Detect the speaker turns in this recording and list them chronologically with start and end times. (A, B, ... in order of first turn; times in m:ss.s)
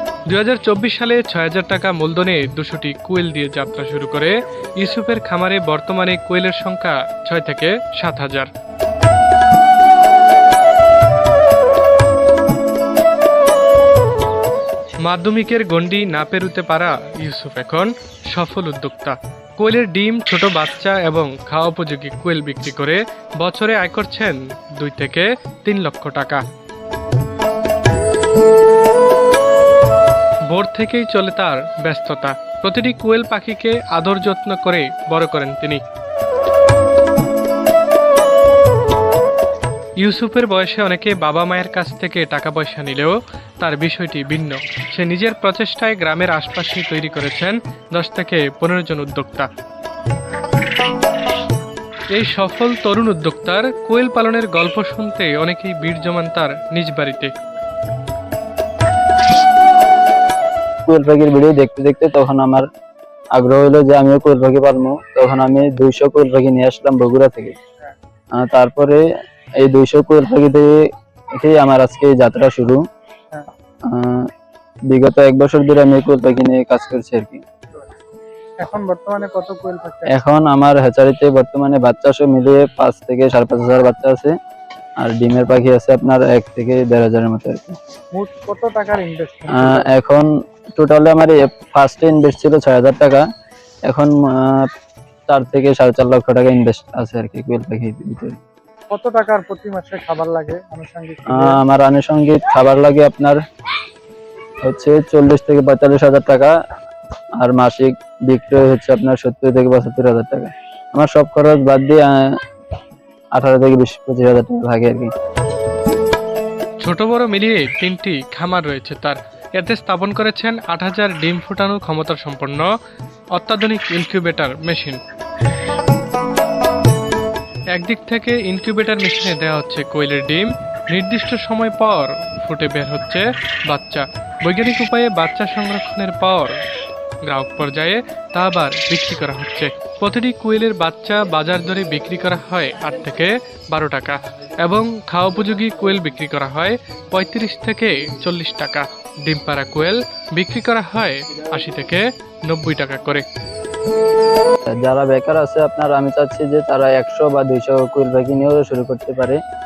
0:00.2-0:08.5 A
0:15.0-0:26.4 A
0:30.5-0:35.8 A
0:40.0-0:49.5 A
0:52.1-0:57.3 A
1:00.8-1:02.6 B
1:03.3-1:07.6 B
1:08.3-1:09.0 B
1:09.6-1:10.8 B
1:11.4-1:12.8 B
1:13.8-1:14.3 B
1:14.9-1:17.4 B
1:18.6-1:20.1 C
1:20.1-1:24.3 B
1:25.0-1:27.8 B
1:28.1-1:29.9 C
1:29.5-1:33.2 B
1:33.8-1:34.7 B
1:35.3-1:38.4 B
1:38.9-1:41.6 C
1:41.3-1:43.4 B
1:44.6-1:46.5 B
1:47.4-1:52.3 B
1:53.3-1:55.1 B
1:56.8-2:02.7 A
2:03.3-2:05.0 A
2:07.7-2:16.6 A
2:17.2-2:33.2 A
2:34.7-2:39.4 B